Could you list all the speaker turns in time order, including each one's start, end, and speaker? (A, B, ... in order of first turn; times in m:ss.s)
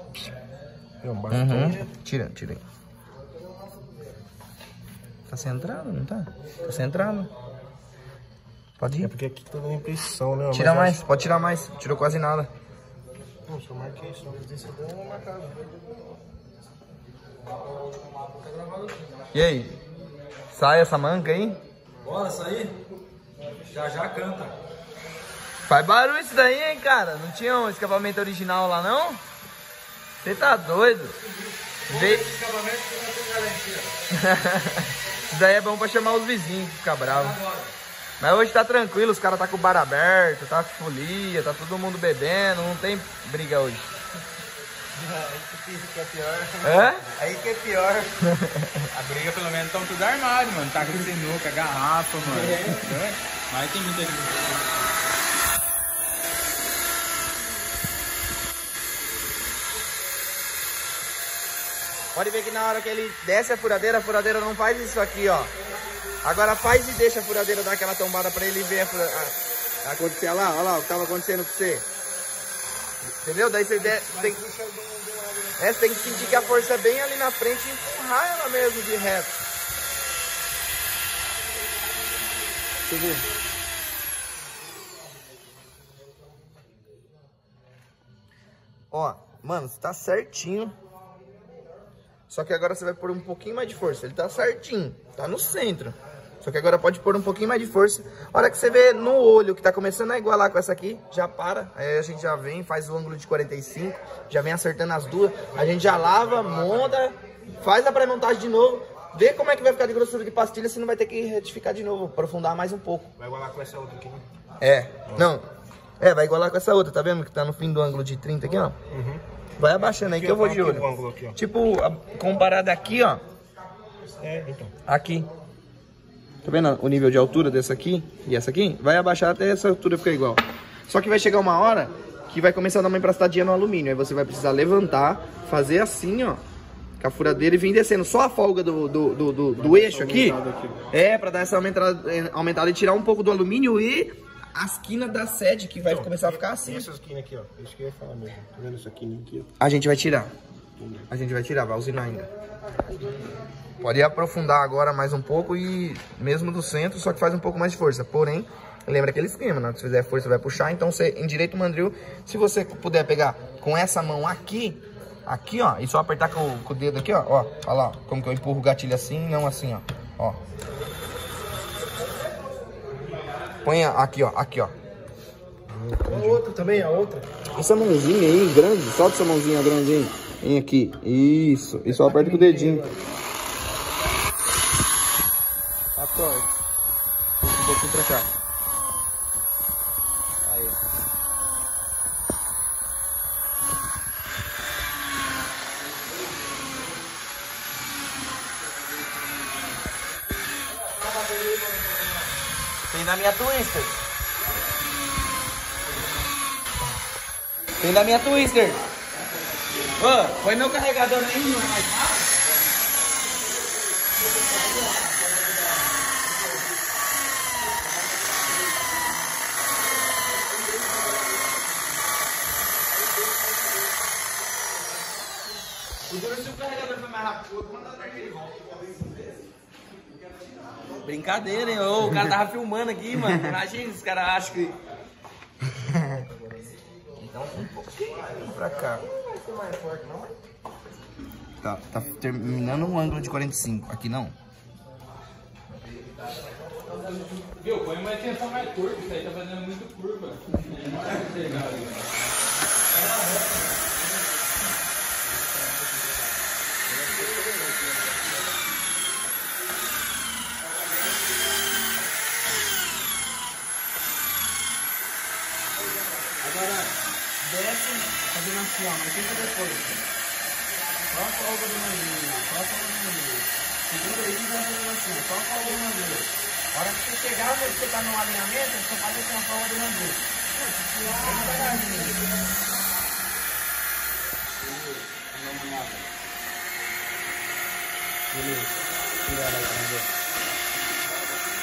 0:01.0-0:01.9 A
0:01.3-0:02.6 B
0:05.3-0:07.3 B
0:08.8-0:09.1 B
0:09.0-0:11.0 A
0:10.5-0:12.5 B
0:13.4-0:16.0 A
0:17.4-0:19.2 C
0:19.3-0:19.8 B
0:20.5-0:21.6 B
0:22.0-0:22.7 C
0:23.6-0:24.6 C
0:25.6-0:29.2 B
0:30.2-0:31.2 B
0:31.4-0:33.9 C
0:31.9-0:32.2 B
0:34.1-0:37.4 B
0:37.0-0:37.7 C
0:38.2-0:43.9 B
0:44.9-0:48.1 A
0:46.6-0:47.1 B
0:48.2-0:48.9 B
0:48.9-0:54.6 D
0:52.4-0:52.9 A
1:02.1-1:05.5 B
1:06.2-1:11.8 B
1:13.0-1:14.4 B
1:13.8-1:16.6 A
1:15.6-1:19.4 B
1:22.8-1:23.2 A
1:28.9-1:30.8 B
1:32.3-1:53.1 B
1:53.2-1:54.2 A
1:54.6-1:55.5 B
1:56.0-1:58.8 B
1:58.5-1:59.2 A
1:59.6-2:03.2 B
1:59.8-2:01.4 A
2:04.2-2:04.7 A
2:04.8-2:05.3 B
2:06.4-2:16.4 B
2:17.0-2:20.4 B
2:19.6-2:20.8 A
2:20.9-2:26.9 B
2:25.8-2:29.5 A
2:29.6-2:30.3 B
2:30.8-2:31.1 A
2:31.1-2:32.3 B
2:33.8-2:50.4 B
2:53.6-2:54.7 B
2:55.7-2:57.3 A
2:56.1-2:56.4 B
2:57.5-3:02.8 B
3:01.9-3:03.0 A
3:05.9-3:06.5 B
3:07.4-3:08.3 B
3:10.4-3:10.8 B
3:20.7-3:22.3 C
3:22.9-3:24.0 B
3:27.8-3:28.8 B
3:30.0-3:32.3 B
3:46.1-3:49.1 B
3:51.0-3:54.8 B
3:57.1-3:59.0 B
3:58.8-4:00.3 A
4:01.6-4:04.3 B
4:07.6-4:12.0 D
4:10.7-4:12.0 C
4:12.9-4:13.8 C
4:16.9-4:18.5 A
4:26.4-4:26.9 B
4:27.4-4:30.0 B
4:31.1-4:40.2 B
4:41.0-4:42.2 B
4:45.3-4:45.9 B
4:48.3-4:48.7 B
4:49.2-4:50.0 B